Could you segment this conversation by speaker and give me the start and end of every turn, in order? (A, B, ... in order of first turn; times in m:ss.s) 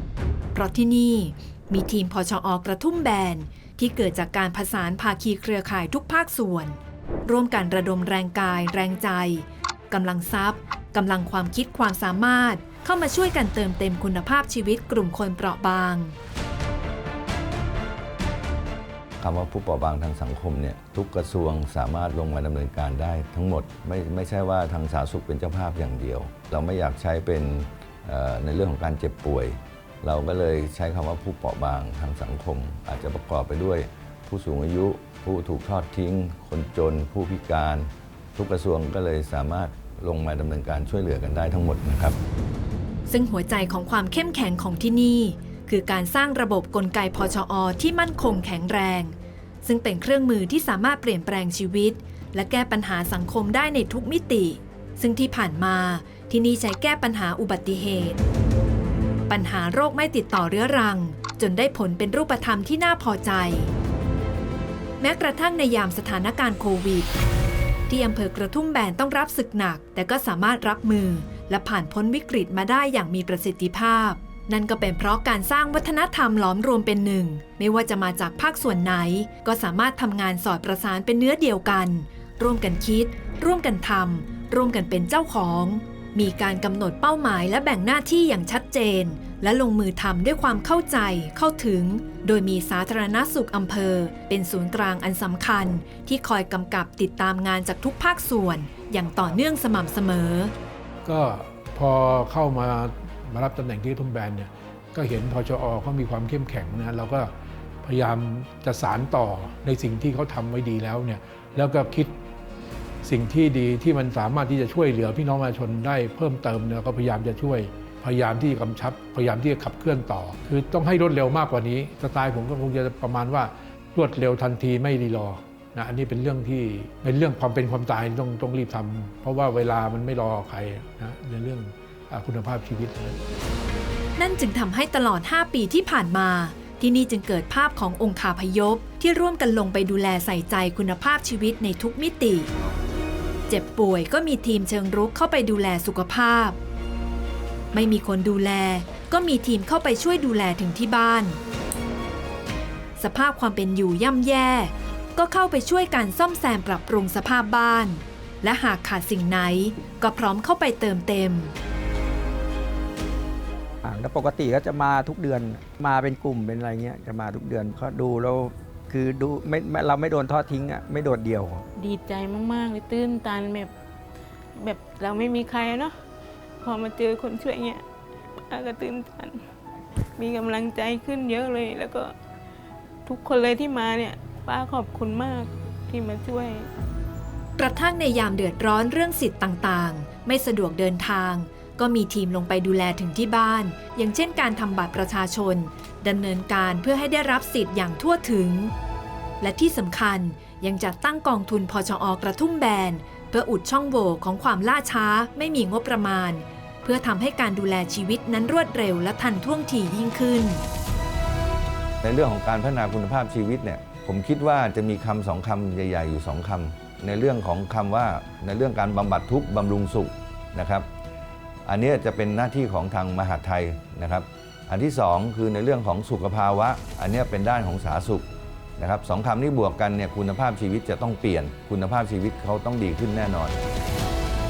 0:00.5-0:16.2 A
0:19.2-0:42.2 B
0:43.1-0:58.2 A
0:59.3-1:03.7 A
1:05.0-1:07.1 A
1:07.9-1:40.5 A
1:41.0-1:52.2 C
1:53.0-2:13.2 C
2:14.2-2:22.5 A
2:23.5-2:26.6 A
2:27.7-2:31.4 A
2:33.0-2:41.5 A
2:43.8-2:51.7 D
2:51.8-2:53.7 E
2:54.6-2:56.0 E
2:56.6-2:57.8 E
2:58.5-2:59.4 E
3:00.2-3:02.1 E
3:03.1-3:06.7 E
3:07.6-3:18.7 A
3:19.4-3:30.6 A
3:32.0-3:40.9 B
3:41.7-3:48.3 B
3:48.8-3:53.6 B